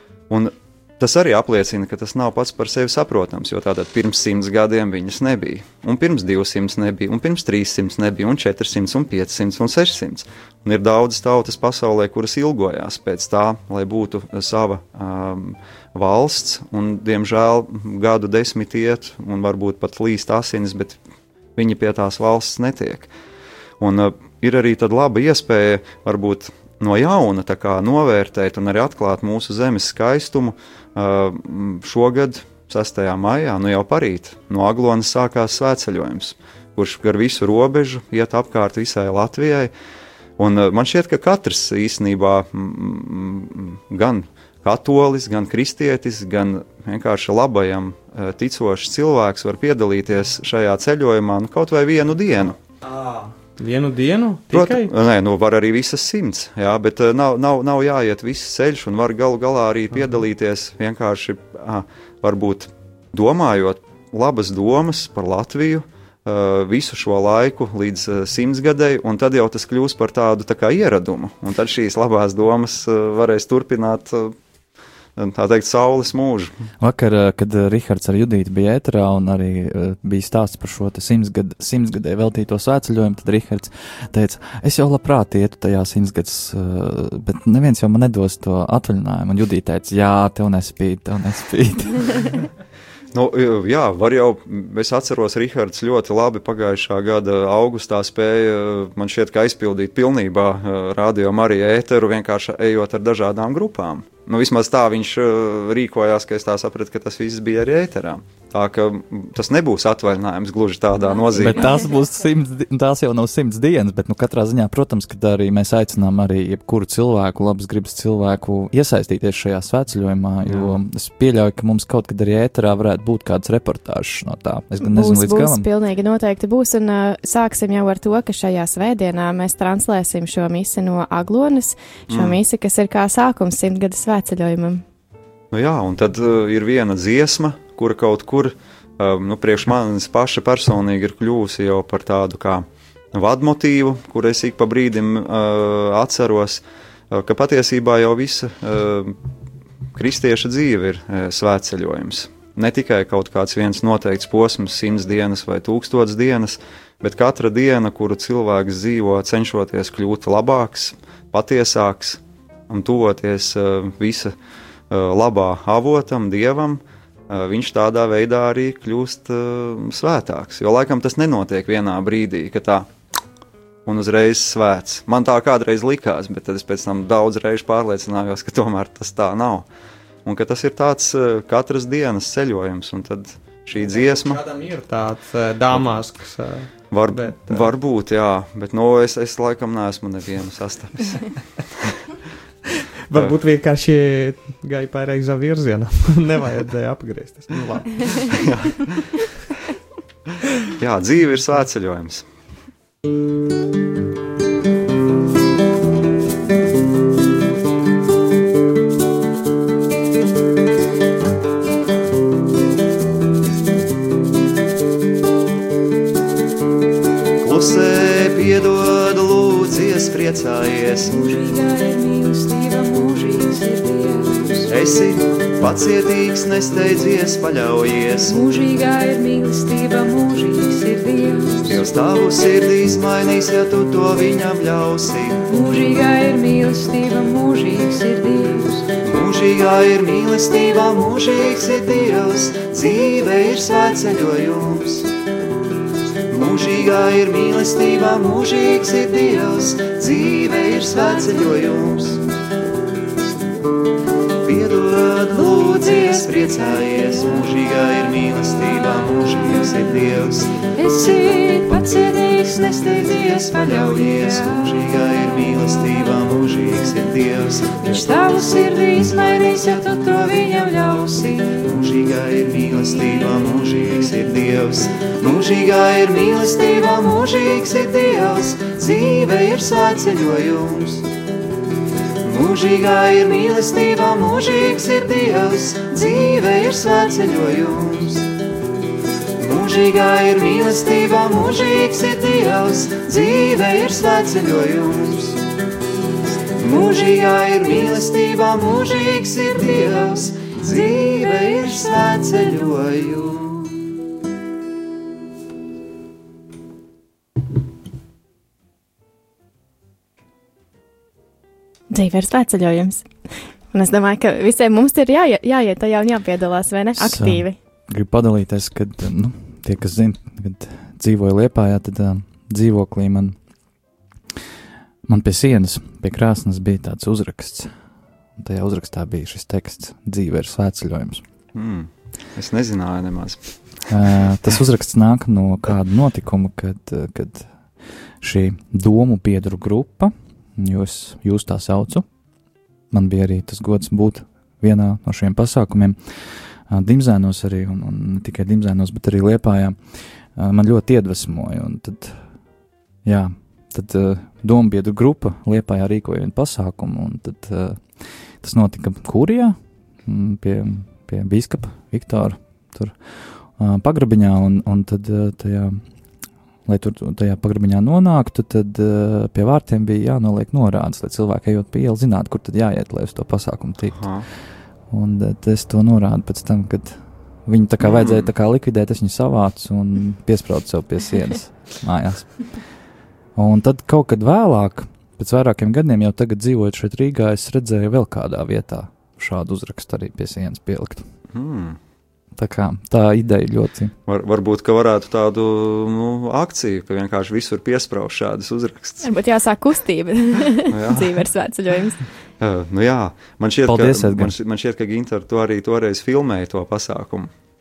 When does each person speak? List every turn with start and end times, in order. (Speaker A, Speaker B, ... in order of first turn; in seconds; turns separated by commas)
Speaker A: 0.3-21.0, Speaker A: 21.6-23.1, Speaker A: 23.8-39.7, Speaker A: 40.4-52.6, Speaker B: 52.8-54.9, Speaker A: 54.5-74.3, Speaker A: 75.2-76.5, Speaker C: 76.8-92.3, Speaker A: 93.1-111.6, Speaker D: 111.0-111.3, Speaker C: 111.3-125.7, Speaker A: 120.5-120.7, Speaker E: 124.8-134.8, Speaker A: 132.1-132.4, Speaker A: 135.5-149.2, Speaker A: 149.9-164.3, Speaker A: 164.9-172.9, Speaker A: 173.9-179.7, Speaker A: 180.2-184.4, Speaker B: 183.8-187.7, Speaker A: 185.7-186.0, Speaker A: 186.8-191.2, Speaker B: 193.1-198.3, Speaker A: 198.3-199.0, Speaker A: 200.8-202.3, Speaker A: 217.4-221.1, Speaker D: 221.1-224.9, Speaker A: 224.7-228.4, Speaker D: 228.2-231.9, Speaker A: 231.7-235.4, Speaker D: 235.5-238.9, Speaker A: 239.0-245.1, Speaker A: 246.3-252.2, Speaker A: 254.4-260.6, Speaker D: 255.3-257.0, Speaker D: 260.7-264.9, Speaker A: 262.9-268.5, Speaker D: 267.8-271.6, Speaker A: 271.6-281.1, Speaker A: 282.3-288.3, Speaker A: 289.4-295.4, Speaker A: 296.6-303.8, Speaker E: 311.9-313.1, Speaker E: 313.7-317.6, Speaker C: 316.9-323.4, Speaker C: 325.1-327.8, Speaker C: 328.4-331.3, Speaker A: 331.5-333.9, Speaker C: 333.9-342.1, Speaker C: 342.9-352.4, Speaker C: 353.0-366.0, Speaker C: 366.6-374.3, Speaker A: 373.9-374.3, Speaker C: 374.8-382.6, Speaker A: 377.8-378.3, Speaker C: 383.4-391.1, Speaker A: 391.3-391.8, Speaker C: 392.4-393.9, Speaker A: 394.1-399.1, Speaker E: 399.0-402.0, Speaker A: 400.7-401.2, Speaker A: 402.4-407.3, Speaker C: 403.6-404.4